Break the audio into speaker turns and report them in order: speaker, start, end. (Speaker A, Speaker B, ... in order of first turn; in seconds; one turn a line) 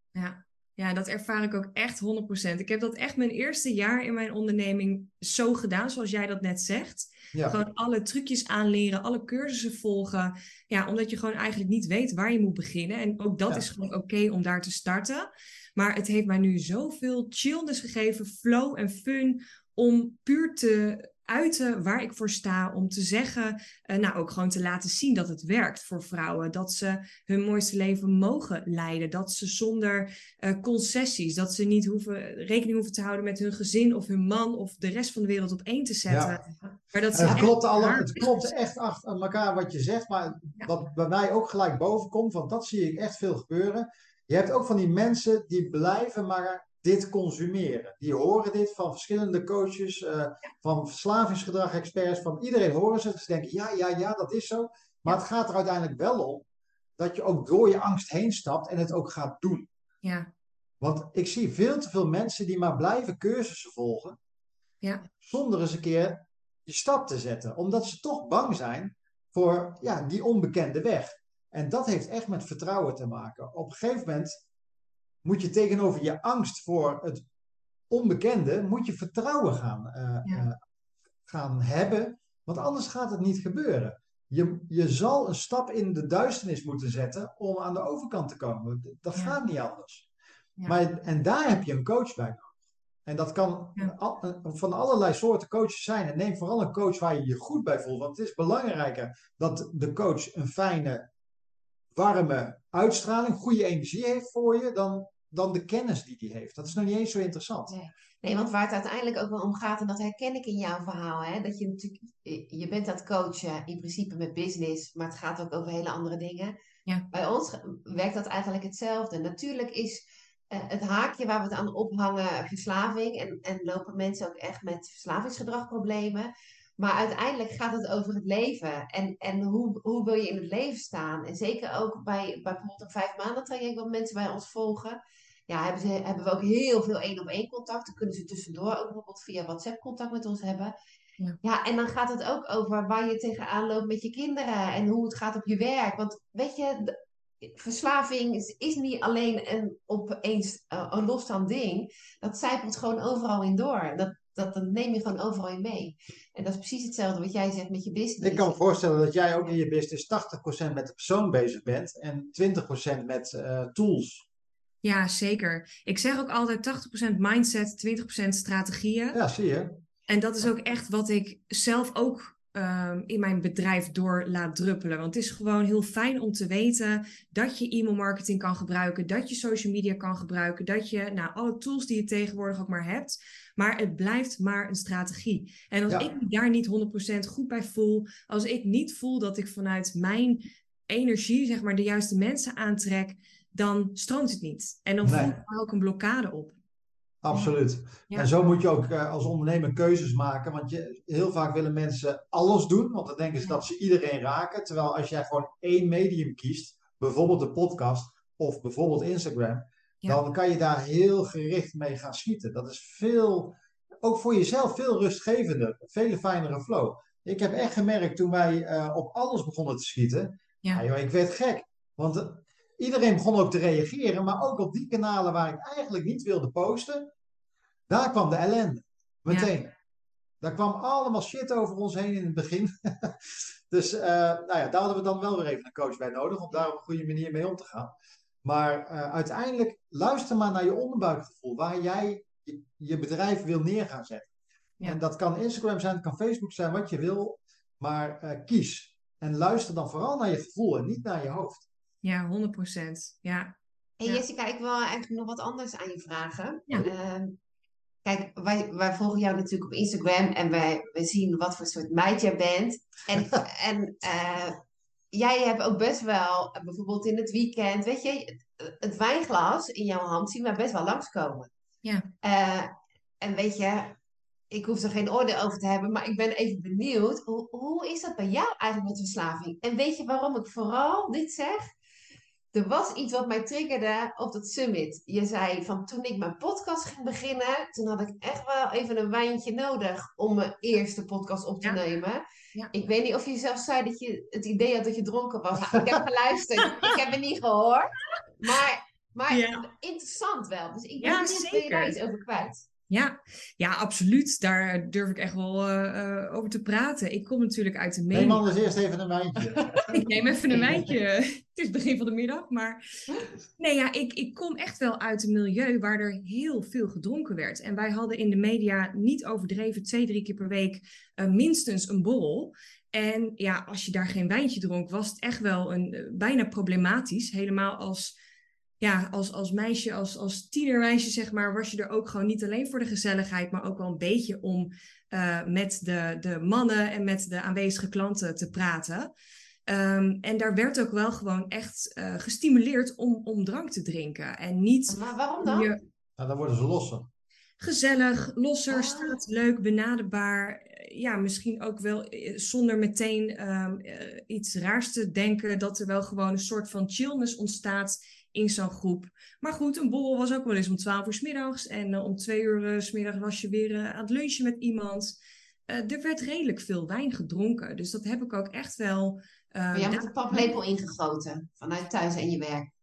Speaker A: 0.1-38.5
Speaker B: 7.3-7.6
Speaker B: 36.1-36.4
Speaker B: 37.1-56.5
Speaker B: 57.0-59.7
Speaker A: 60.0-60.3
Speaker B: 60.8-64.2
Speaker B: 65.2-74.4
Speaker B: 75.2-77.2
Speaker B: 77.9-80.6
Speaker B: 81.2-90.1
Speaker B: 90.7-92.5
Speaker B: 93.0-101.0
Speaker B: 101.9-107.7
Speaker C: 107.7-116.5
Speaker C: 117.1-140.7
Speaker C: 141.4-158.6
Speaker B: 158.2-164.3
Speaker A: 164.8-169.2
Speaker B: 169.1-169.7
Speaker A: 170.1-196.6
Speaker B: 195.0-195.3
Speaker B: 197.2-227.1
Speaker B: 227.9-229.7
Speaker B: 230.4-244.3
Speaker B: 244.8-251.7
Speaker A: 252.0-253.5
Speaker C: 254.0-257.4
Speaker C: 258.0-264.6
Speaker C: 265.1-271.5
Speaker C: 272.2-273.9
Speaker C: 274.5-281.7
Speaker C: 282.5-302.7
Speaker A: 296.6-296.9
Speaker A: 299.3-299.6
Speaker A: 301.0-301.9
Speaker A: 302.9-308.4
Speaker B: 308.1-309.9
Speaker A: 309.9-312.8
Speaker C: 310.5-310.8
Speaker A: 313.6-328.1
Speaker A: 328.8-339.1
Speaker A: 339.7-345.8
Speaker C: 344.9-345.7
Speaker B: 346.2-347.1
Speaker A: 347.6-365.1
Speaker C: 348.7-349.2
Speaker A: 365.7-370.5
Speaker C: 369.7-372.7